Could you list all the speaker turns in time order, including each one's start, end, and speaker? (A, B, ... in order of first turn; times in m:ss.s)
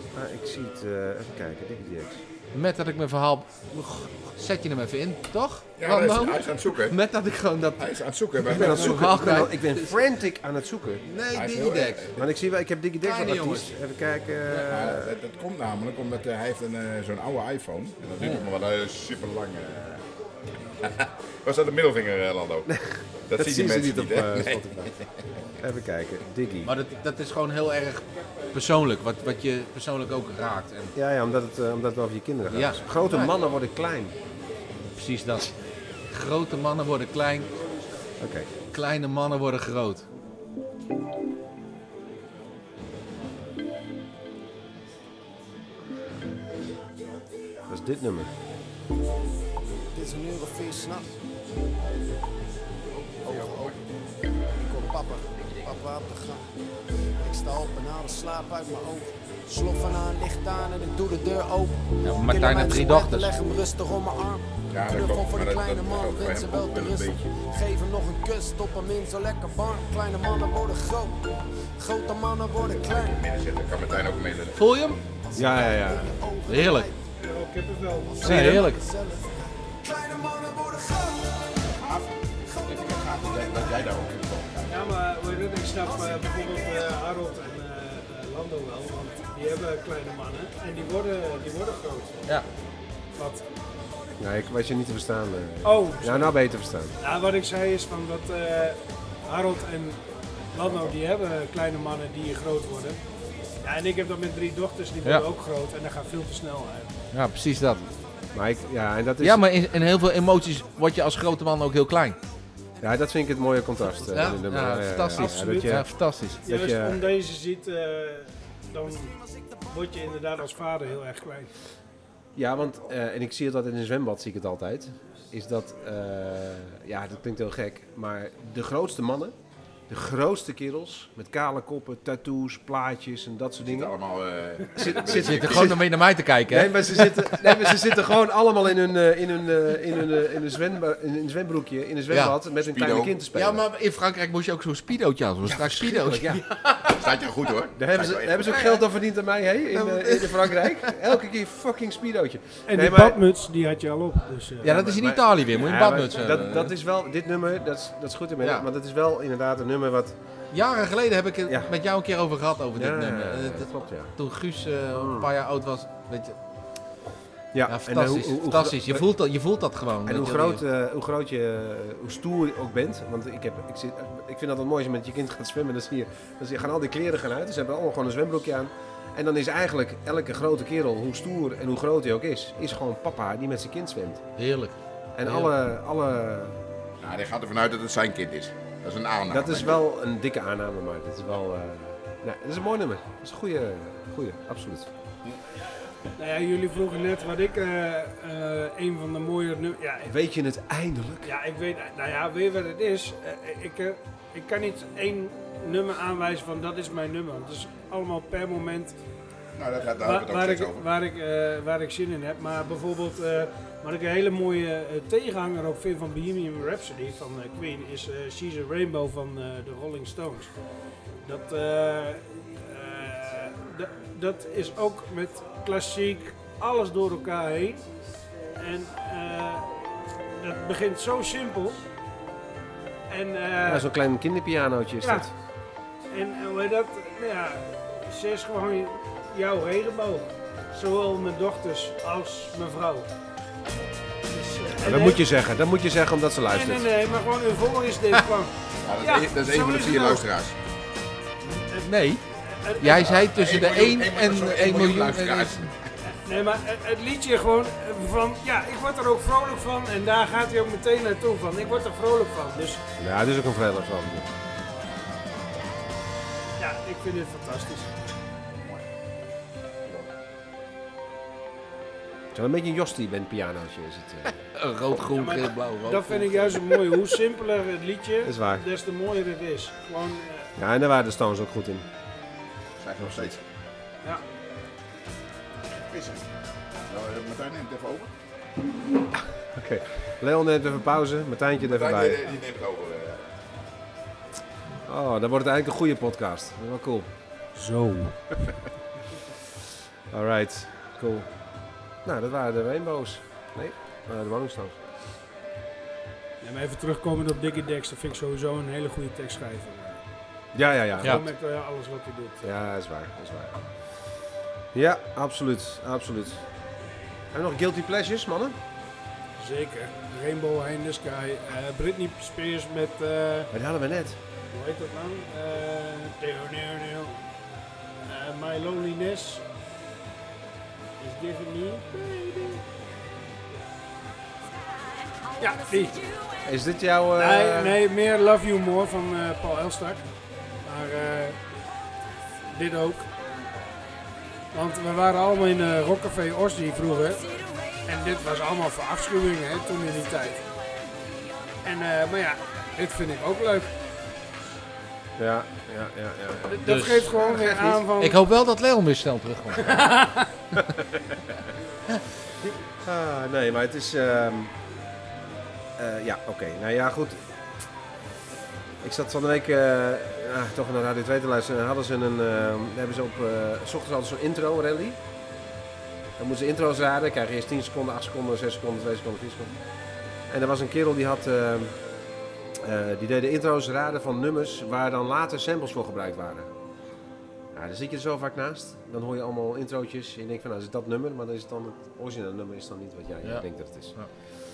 0:00.1-0:02.2 A
0:02.5-0:07.9 B
0:05.8-0:07.0 C
0:07.8-0:09.0 C
0:08.4-0:10.0 B
0:08.5-0:11.0 A
0:11.0-0:12.1 B
0:11.3-0:12.2 C
0:12.2-0:15.1 A
0:13.0-0:13.8 B
0:14.7-0:20.0 C
0:20.8-0:22.7 C
0:22.7-0:24.9 A
0:23.3-0:25.0 C
0:25.6-0:26.7 A
0:26.6-0:30.9 B
0:30.9-0:34.1 A
0:32.5-0:33.4 B
0:35.0-0:35.5 B
0:36.1-0:37.5 B
0:38.2-0:38.5 A
0:38.7-0:40.0 B
0:47.7-0:48.3 A
0:49.9-0:51.1 D
0:52.9-0:53.8 C
0:53.2-0:53.8 D
0:54.6-0:56.4 D
0:57.2-1:11.2 D
1:02.0-1:03.3 B
1:04.7-1:07.2 C
1:11.8-1:13.2 D
1:13.0-1:14.9 C
1:14.5-1:15.0 B
1:15.3-1:17.0 D
1:15.3-1:16.1 A
1:16.5-1:16.9 B
1:17.2-1:18.3 E
1:18.0-1:21.6 D
1:18.2-1:18.8 B
1:18.2-1:18.6 A
1:21.8-1:22.1 C
1:22.6-1:24.9 C
1:24.7-1:32.3 E
1:33.2-1:33.4 E
1:34.2-1:37.0 A
1:35.6-1:36.4 E
1:37.0-1:40.0 E
1:40.5-1:43.0 E
1:40.6-1:41.0 C
1:43.6-1:47.0 E
1:47.1-1:47.9 B
1:48.3-1:49.4 A
1:49.2-1:52.2 B
1:52.8-1:55.9 A
1:54.0-1:56.4 B
1:55.2-1:55.7 E
1:56.4-1:59.2 E
1:56.4-1:57.0 A
1:59.7-2:01.5 E
2:02.4-2:09.4 A
2:09.9-2:13.9 A
2:13.6-2:15.8 C
2:14.8-2:15.8 A
2:15.0-2:17.9 B
2:16.5-2:23.6 A
2:22.1-2:22.4 B
2:22.6-2:23.2 C
2:23.3-2:27.0 B
2:25.5-2:26.4 A
2:26.8-2:28.6 C
2:27.8-2:33.2 A
2:28.4-2:28.8 B
2:29.7-2:30.9 B
2:32.7-2:34.7 E
2:34.6-2:36.7 B
2:34.6-2:40.2 A
2:40.5-2:46.3 B
2:42.8-2:44.1 A
2:44.9-2:45.3 A
2:47.5-2:49.0 A
2:47.7-2:50.6 B
2:50.1-3:04.2 A
3:04.4-3:05.5 B
3:05.2-3:06.6 A
3:07.0-3:09.8 C
3:09.3-3:14.9 A
3:16.2-3:20.1 E
3:20.1-3:21.3 A
3:21.2-3:28.9 E
3:29.5-3:30.9 C
3:30.0-3:40.5 E
3:41.2-3:47.8 E
3:48.6-3:51.8 E
3:53.1-3:53.9 E
3:53.6-3:55.3 A
3:55.0-3:55.3 E
3:56.1-4:03.1 E
4:04.3-4:05.2 E
4:04.8-4:06.9 A
4:06.5-4:10.2 E
4:08.8-4:10.6 C
4:11.5-4:12.2 B
4:12.5-4:13.2 E
4:12.8-4:15.6 B
4:12.8-4:15.7 C
4:16.1-4:22.8 E
4:23.0-4:24.3 A
4:26.6-4:28.1 E
4:32.3-4:34.3 A
4:34.5-4:37.0 B
4:35.1-4:40.5 E
4:38.2-4:38.6 A
4:40.6-4:41.9 A
4:42.8-4:43.4 C
4:45.7-4:46.3 C
4:46.9-4:48.1 C
4:49.5-4:52.2 A
4:51.6-4:53.3 C
4:54.9-4:57.1 A
4:57.5-4:58.4 E
5:00.1-5:01.3 A
5:02.0-5:04.8 A
5:06.4-5:10.0 E
5:10.5-5:11.2 A
5:11.0-5:12.4 E
5:12.4-5:13.6 A
5:14.7-5:16.4 A
5:17.3-5:18.6 A
5:19.4-5:23.5 E
5:23.5-5:24.2 A
5:24.5-5:27.2 E
5:28.1-5:29.4 E
5:31.0-5:32.6 E
5:35.4-5:36.2 E
5:36.4-5:37.8 A
5:37.2-5:40.0 E
5:40.6-5:41.4 E
5:42.5-5:43.1 E
5:44.5-5:50.5 E
5:51.6-5:53.7 E
5:55.2-5:57.9 A
5:56.5-5:58.2 E
5:56.6-5:57.1 B
5:57.9-5:59.9 B
5:59.5-6:00.3 E
6:02.8-6:04.5 A
6:05.8-6:07.2 A
6:08.8-6:15.0 A
6:16.2-6:19.6 A
6:20.3-6:21.8 A
6:22.6-6:26.5 A
6:27.5-6:34.0 A
6:33.2-6:34.1 B